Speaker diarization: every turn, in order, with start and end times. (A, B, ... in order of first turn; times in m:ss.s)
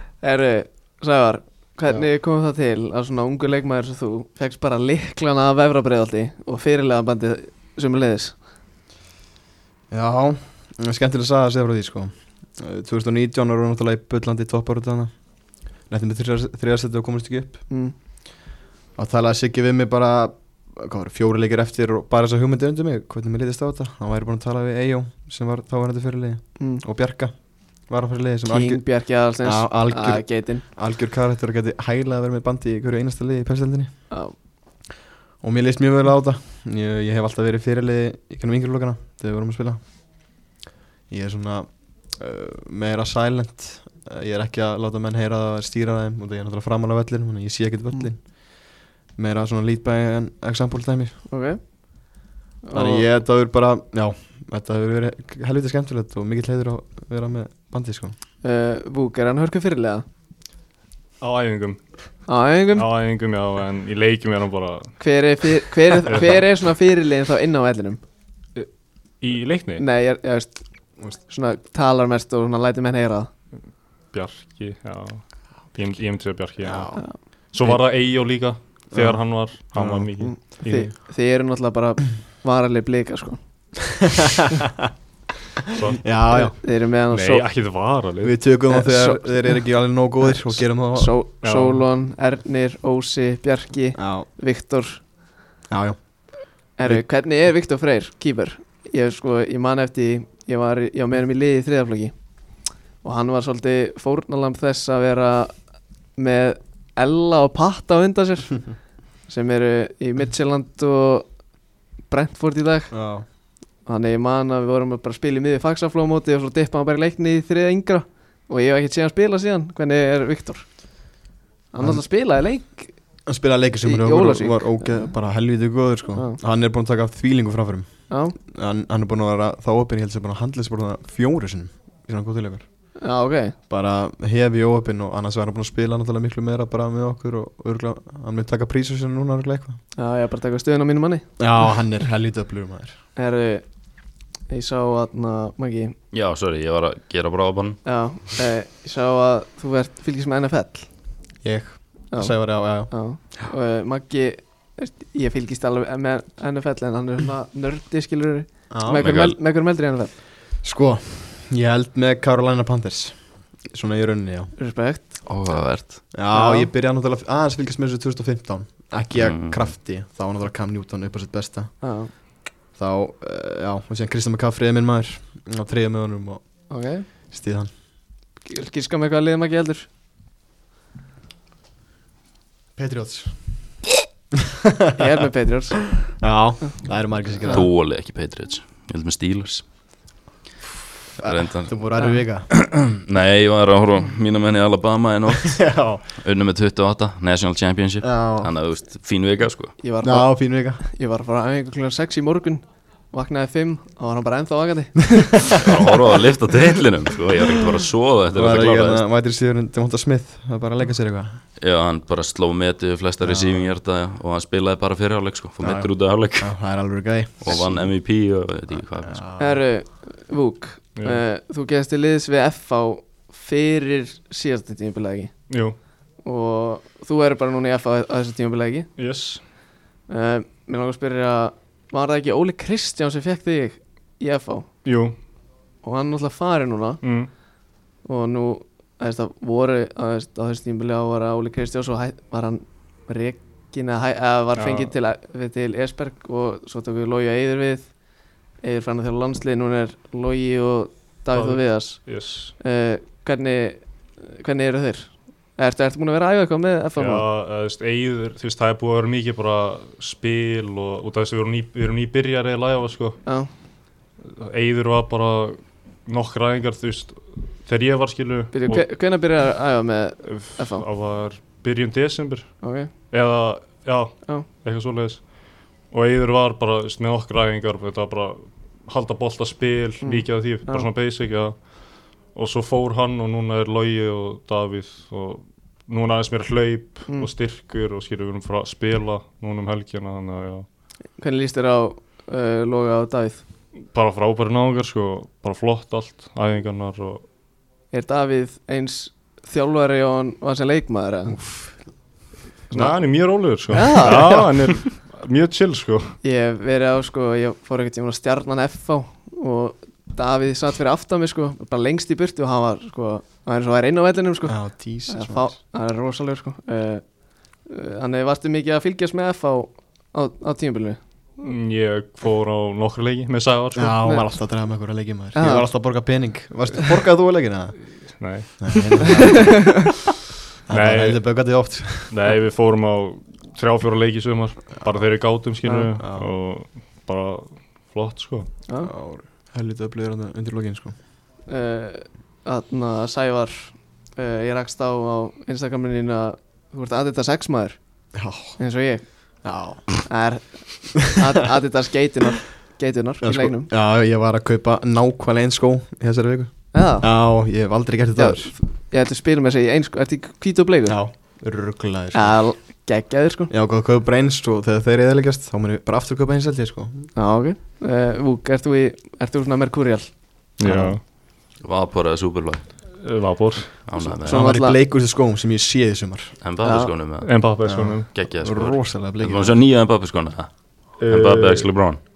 0:00.2-0:08.4 A
0:09.9-0:17.7 B
0:19.0-0:34.1 B
0:26.6-0:26.8 A
0:28.5-0:30.6 A
0:34.1-0:34.4 A
0:35.4-0:39.9 B
0:41.1-0:51.3 B
0:51.3-0:53.1 A
0:52.7-0:58.2 B
0:58.4-1:00.0 A
1:01.2-1:05.1 C
1:02.3-1:02.9 A
1:05.0-1:08.0 A
1:06.0-1:06.4 C
1:09.2-1:09.8 C
1:09.8-1:13.3 A
1:14.1-1:20.9 C
1:16.6-1:17.1 B
1:18.9-1:20.1 B
1:20.2-1:23.4 A
1:24.0-1:24.7 B
1:25.7-1:26.0 C
1:26.0-1:26.6 B
1:26.3-1:27.5 A
1:27.1-1:28.4 C
1:28.2-1:31.2 B
1:28.7-1:35.0 A
1:31.4-1:31.8 C
1:34.0-1:34.3 B
1:35.7-1:36.2 B
1:36.8-1:42.1 A
1:43.0-1:45.6 A
1:46.2-1:48.7 A
1:49.3-1:51.3 A
1:52.1-1:52.9 A
1:52.9-1:53.2 B
1:53.9-2:01.2 A
2:01.7-2:03.0 A
2:01.8-2:02.0 B
2:03.3-2:12.7 B
2:03.8-2:05.1 A
2:08.1-2:08.4 A
2:13.0-2:13.6 A
2:13.7-2:19.8 B
2:20.0-2:21.3 A
2:21.4-2:23.0 B
2:23.2-2:23.7 A
2:24.5-2:26.0 A
2:26.1-2:27.8 D
2:27.8-2:30.9 A
2:31.4-2:32.9 B
2:32.1-2:40.1 A
2:38.7-2:39.1 B
2:39.0-2:39.4 D
2:40.6-2:44.5 B
2:44.6-2:45.2 A
2:45.3-2:46.0 D
2:46.1-2:57.7 B
2:46.3-2:46.7 A
2:49.2-2:49.7 D
2:51.8-2:52.1 A
2:56.7-2:57.1 A
2:58.4-2:59.9 A
3:02.8-3:03.8 B
3:04.6-3:04.9 B
3:05.0-3:06.0 A
3:06.0-3:07.7 B
3:07.4-3:09.7 D
3:11.2-3:12.5 B
3:11.2-3:11.8 D
3:12.5-3:19.7 D
3:15.5-3:16.0 B
3:18.0-3:18.5 B
3:19.8-3:25.4 A
3:20.0-3:20.8 B
3:25.6-3:29.0 D
3:28.3-3:31.4 B
3:31.6-3:36.6 D
3:33.2-3:33.7 B
3:35.6-3:38.0 B
3:37.4-3:39.2 D
3:38.8-3:39.6 B
3:39.4-3:45.5 A
3:41.0-3:41.2 C
3:45.5-3:45.8 C
3:46.2-3:48.9 A
3:49.0-3:49.4 C
3:50.1-3:54.8 A
3:54.8-3:55.2 C
3:55.8-3:57.0 A
3:57.0-3:57.3 C
3:58.0-4:08.0 A
4:04.6-4:04.9 C
4:08.6-4:17.2 A
4:11.3-4:12.5 C
4:17.0-4:23.2 C
4:23.2-4:23.5 A
4:24.2-4:28.9 C
4:28.5-4:30.8 A
4:30.2-4:50.7 C
4:32.6-4:32.9 A
4:40.0-4:40.9 A
4:51.2-4:53.4 A
4:53.9-4:57.2 C
4:57.9-5:01.4 A
5:01.3-5:01.8 B
5:02.7-5:06.2 C
5:03.7-5:04.4 A
5:03.9-5:04.4 B
5:06.2-5:21.0 A
5:14.4-5:15.6 B
5:21.4-5:24.0 C
5:23.7-5:30.0 B
5:25.4-5:25.7 A
5:28.2-5:29.1 C
5:29.2-5:29.7 A
5:30.7-5:32.1 B
5:30.7-5:38.5 C
5:35.6-5:35.9 A
5:36.0-5:36.3 B
5:38.8-5:41.0 B
5:41.5-5:47.8 A
5:48.2-5:48.6 B
5:48.6-5:49.4 A
5:49.4-5:50.0 B
5:50.0-5:53.7 A
5:53.2-5:58.5 B
5:56.7-5:57.1 A
5:58.2-6:01.0 A
6:00.9-6:02.5 B
6:02.1-6:03.5 A
6:03.5-6:07.1 B
6:07.2-6:10.2 A
6:10.6-6:11.0 C
6:10.6-6:11.0 B
6:11.6-6:12.7 D
6:13.0-6:14.0 C
6:13.9-6:14.5 D
6:14.2-6:16.4 B
6:14.2-6:14.8 A
6:16.4-6:17.4 D
6:16.6-6:16.9 A
6:17.2-6:18.1 C
6:17.6-6:19.6 B
6:18.1-6:22.0 D
6:21.0-6:21.7 C